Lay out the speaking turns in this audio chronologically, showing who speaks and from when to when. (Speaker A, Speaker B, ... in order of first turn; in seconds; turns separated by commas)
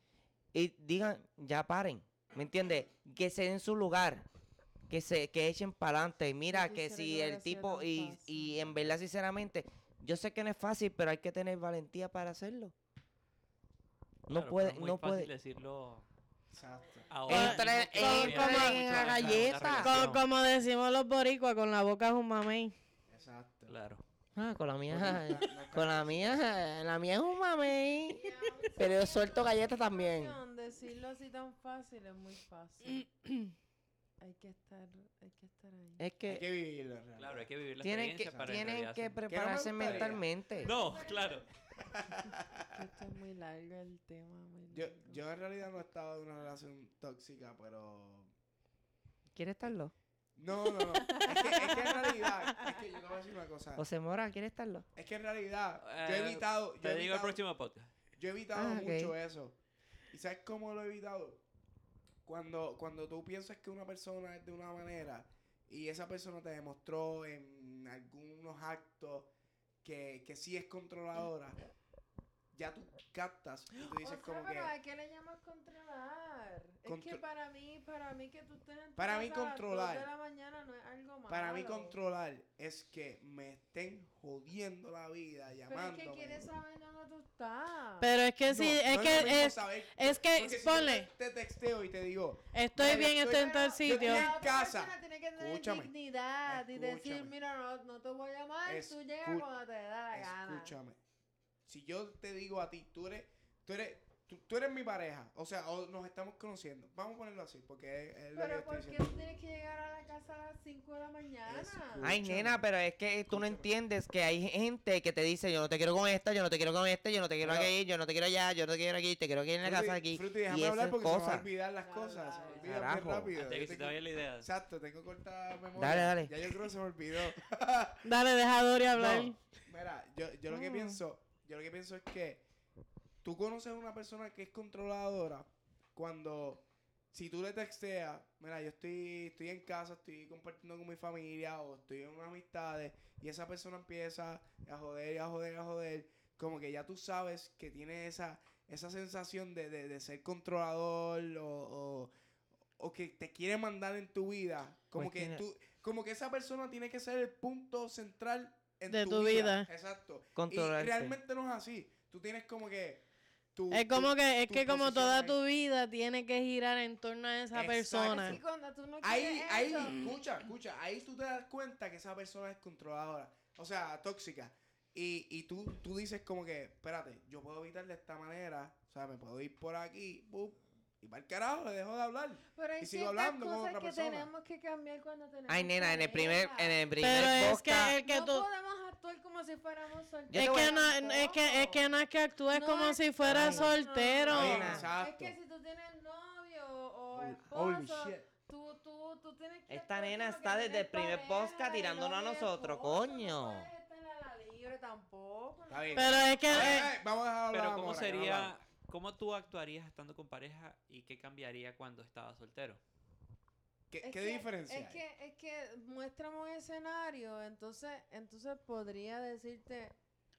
Speaker A: 0.5-4.3, Speaker A: 4.9-12.7, Speaker B: 6.5-8.5, Speaker A: 14.3-15.3, Speaker C: 14.3-16.1, Speaker D: 16.5-17.1, Speaker C: 17.1-20.2, Speaker A: 17.3-20.1, Speaker E: 17.3-19.1, Speaker D: 19.0-19.6, Speaker E: 19.8-22.7, Speaker D: 23.1-23.7, Speaker C: 23.7-24.0, Speaker A: 24.4-30.4, Speaker D: 24.9-26.5, Speaker B: 28.1-33.1, Speaker E: 33.0-33.5, Speaker B: 34.2-36.0, Speaker A: 36.0-36.4, Speaker D: 36.2-37.5, Speaker C: 37.1-41.4, Speaker A: 37.8-40.7, Speaker D: 38.2-38.8, Speaker D: 39.3-40.2, Speaker B: 40.6-41.4, Speaker D: 41.8-42.7, Speaker B: 42.7-45.2, Speaker D: 44.7-48.3, Speaker A: 49.4-49.9, Speaker D: 50.4-53.8, Speaker B: 51.1-51.7, Speaker A: 53.8-54.9, Speaker D: 54.9-57.4, Speaker C: 55.8-57.9, Speaker D: 58.1-59.6, Speaker A: 58.5-59.1, Speaker D: 60.1-61.4, Speaker D: 62.2-69.3, Speaker D: 69.8-71.6, Speaker D: 72.5-74.7, Speaker B: 74.0-82.0, Speaker D: 76.8-77.2, Speaker D: 79.0-80.1, Speaker D: 81.3-86.5, Speaker B: 85.7-88.1, Speaker E: 88.0-91.1, Speaker D: 88.4-95.9, Speaker E: 92.5-94.3, Speaker B: 92.8-100.7, Speaker D: 96.5-97.3, Speaker D: 98.7-99.5, Speaker D: 100.1-101.0, Speaker D: 101.7-109.1, Speaker B: 108.3-112.2, Speaker D: 111.5-112.6, Speaker A: 112.0-121.5, Speaker D: 113.3-113.7, Speaker D: 117.4-117.7, Speaker D: 119.6-128.0, Speaker B: 121.8-122.9, Speaker A: 122.6-123.3, Speaker C: 123.4-124.5, Speaker A: 125.8-126.6, Speaker E: 128.0-129.4, Speaker D: 128.9-132.4, Speaker E: 130.5-131.0, Speaker D: 133.2-152.1, Speaker D: 152.8-163.0, Speaker A: 155.0-155.4, Speaker E: 158.9-159.7, Speaker A: 160.4-161.2, Speaker D: 163.5-165.4, Speaker E: 163.7-168.4, Speaker D: 167.5-168.4, Speaker B: 168.0-170.1, Speaker D: 169.0-184.3, Speaker B: 182.5-186.8, Speaker A: 185.5-188.0, Speaker E: 187.0-188.4, Speaker B: 187.4-206.7, Speaker A: 190.3-190.8, Speaker E: 190.3-194.7, Speaker A: 193.2-193.7, Speaker A: 194.3-194.9, Speaker D: 194.3-195.3, Speaker D: 197.1-198.3, Speaker A: 199.7-203.7, Speaker D: 205.7-208.5, Speaker E: 205.9-206.9, Speaker C: 207.5-212.8, Speaker D: 213.9-215.0, Speaker B: 214.0-220.0